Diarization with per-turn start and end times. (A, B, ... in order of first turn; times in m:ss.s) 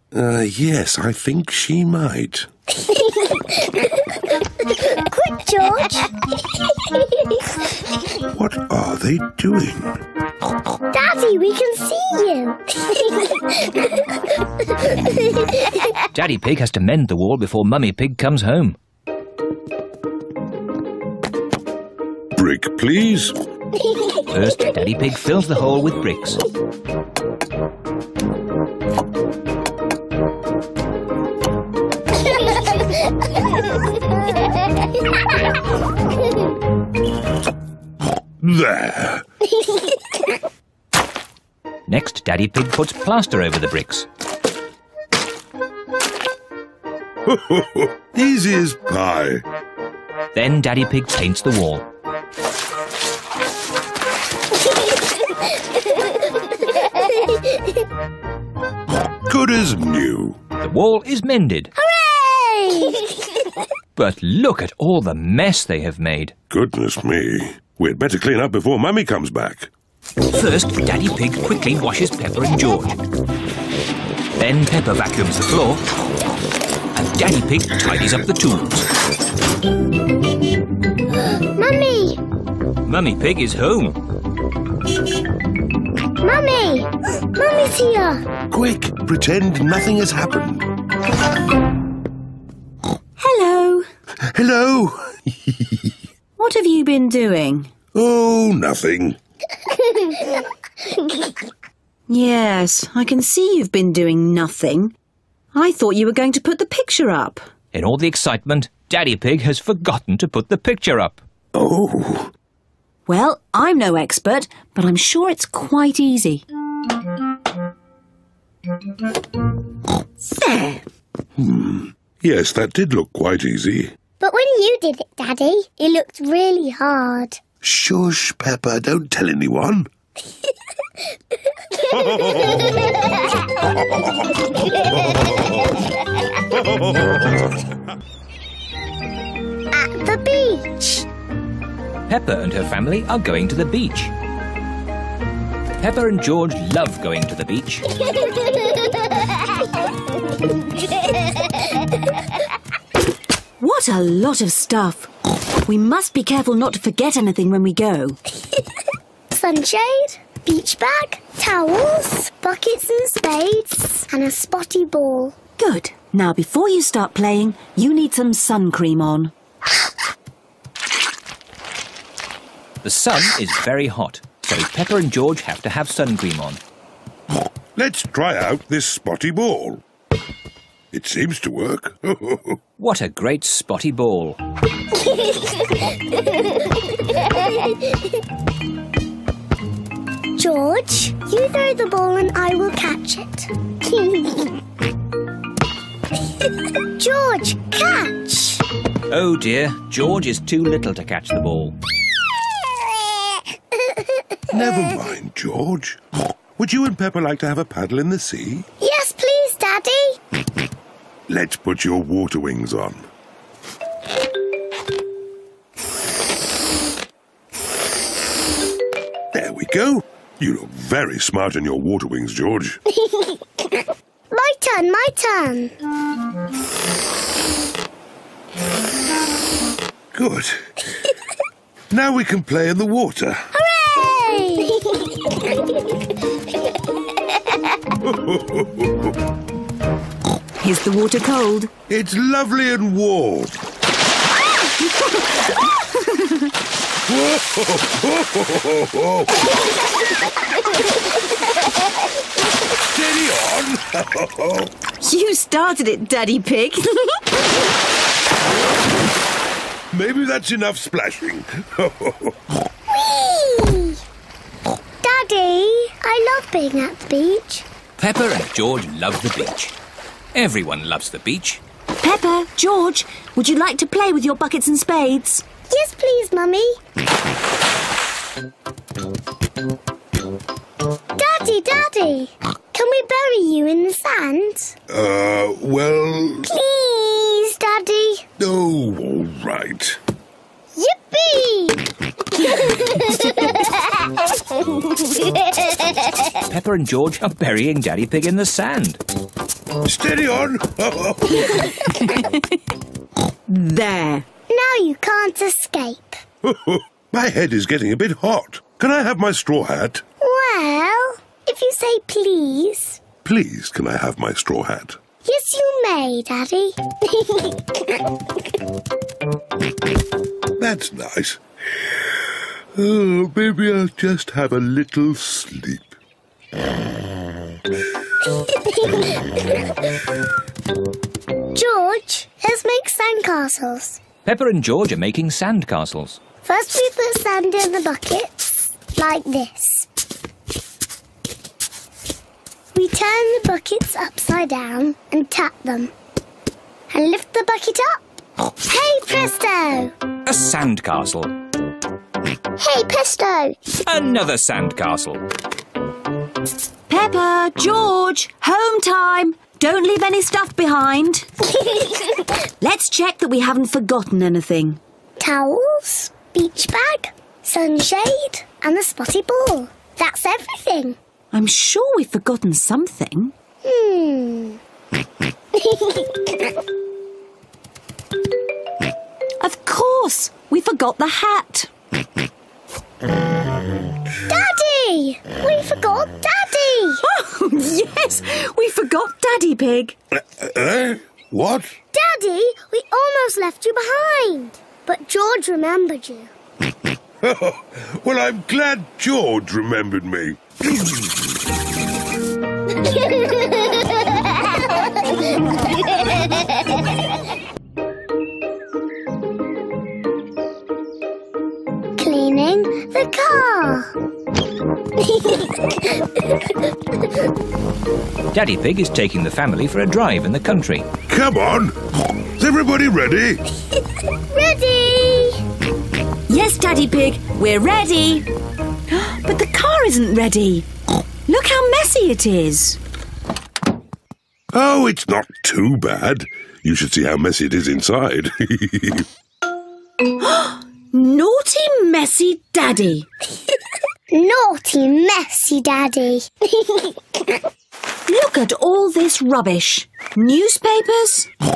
0:00.1-0:02.5 A
0:02.8-0:04.0 B
0:04.7-0:06.1 B
0:08.3-0:09.9 A
0:10.9-0:14.0 B
0:14.8-0:15.5 B
0:16.1-0:18.8 C
0:22.4-0:23.4 A
0:24.3-0:26.4 C
0:38.4-0:39.2 A
0:41.9-0:44.1 C
0:47.3-0:49.4 A
0:50.3-0:51.9 C
0:59.3-1:00.4 A
1:00.6-1:01.7 C
1:01.8-1:03.1 B
1:04.0-1:06.3 C
1:06.5-1:09.7 A
1:10.3-1:13.0 C
1:14.4-1:15.8 C
1:16.9-1:18.9 C
1:21.5-1:22.2 B
1:22.8-1:24.0 C
1:26.2-1:28.3 B
1:28.5-1:30.7 A
1:33.2-1:33.9 D
1:34.3-1:35.9 A
1:36.4-1:37.7 D
1:37.9-1:39.2 A
1:42.1-1:44.9 D
1:45.5-1:47.5 D
1:47.7-1:51.2 C
1:51.5-1:52.3 A
1:53.1-1:56.4 D
2:00.2-2:00.9 D
2:01.4-2:03.9 A
2:04.2-2:07.4 B
2:07.6-2:09.9 A
2:11.9-2:12.7 A
2:14.8-2:15.6 A
2:16.4-2:17.7 A
2:19.7-2:21.1 B
2:22.1-2:24.1 C
2:25.8-2:27.9 C
2:33.6-2:35.1 D
2:35.7-2:38.2 D
2:39.3-2:45.4 B
2:45.6-2:49.3 D
2:52.8-2:56.6 C
2:57.8-2:59.8 A
3:00.9-3:02.6 A
3:02.8-3:04.4 C
3:10.4-3:14.5 B
3:16.9-3:18.6 B
3:19.1-3:21.8 C
3:24.5-3:26.0 A
3:26.6-3:28.7 A
3:28.8-3:30.2 B
3:31.3-3:33.1 A
3:39.3-3:42.8 A
3:44.3-3:45.7 B
3:50.1-3:50.8 A
3:51.9-3:53.5 A
3:53.5-3:55.0 B
3:58.0-3:59.1 A
4:00.6-4:01.7 D
4:01.9-4:03.6 A
4:05.0-4:05.2 D
4:06.0-4:06.4 D
4:07.1-4:09.5 A
4:12.9-4:14.7 A
4:15.0-4:17.2 D
4:19.9-4:22.4 A
4:22.9-4:24.0 B
4:25.0-4:27.7 B
4:28.0-4:29.7 C
4:30.3-4:31.6 C
4:32.0-4:35.4 D
4:35.7-4:36.8 B
4:41.2-4:44.8 B
4:44.9-4:46.5 A
4:46.5-4:48.3 B
4:48.4-4:50.0 A
4:50.8-4:51.8 B
4:56.5-4:59.0 C
4:59.8-5:01.7 A
5:02.0-5:02.6 D
5:03.5-5:04.2 D
5:04.5-5:06.2 B
5:06.4-5:10.0 A
5:10.2-5:13.0 B
5:13.2-5:15.0 A
5:15.2-5:17.4 B
5:20.6-5:22.2 A
5:22.8-5:26.0 A
5:28.4-5:29.1 B
5:31.6-5:34.0 B
5:34.2-5:36.2 C
5:36.4-5:39.9 B
5:42.7-5:45.9 B
5:46.9-5:48.0 B
5:48.6-5:49.9 B
5:50.3-5:51.3 C
5:52.6-5:53.6 B
5:53.9-5:55.2 C
5:56.9-6:01.3 D
6:02.6-6:04.8 D
6:05.2-6:11.0 B
6:11.3-6:13.3 D
6:13.6-6:14.6 B
6:15.6-6:16.2 B
6:19.4-6:21.7 D
6:24.3-6:27.0 B
6:27.0-6:30.0 D
6:30.1-6:31.8 A
6:31.9-6:36.3 B
6:37.2-6:41.0 A
6:52.0-6:53.9 B
6:58.3-7:00.9 C
7:01.1-7:01.8 A
7:02.4-7:03.4 A
7:04.3-7:05.4 B
7:06.3-7:08.3 D
7:08.9-7:10.7 D
7:11.3-7:12.8 D
7:14.5-7:19.1 A
7:20.2-7:23.1 D
7:24.1-7:27.0 B
7:28.1-7:31.3 D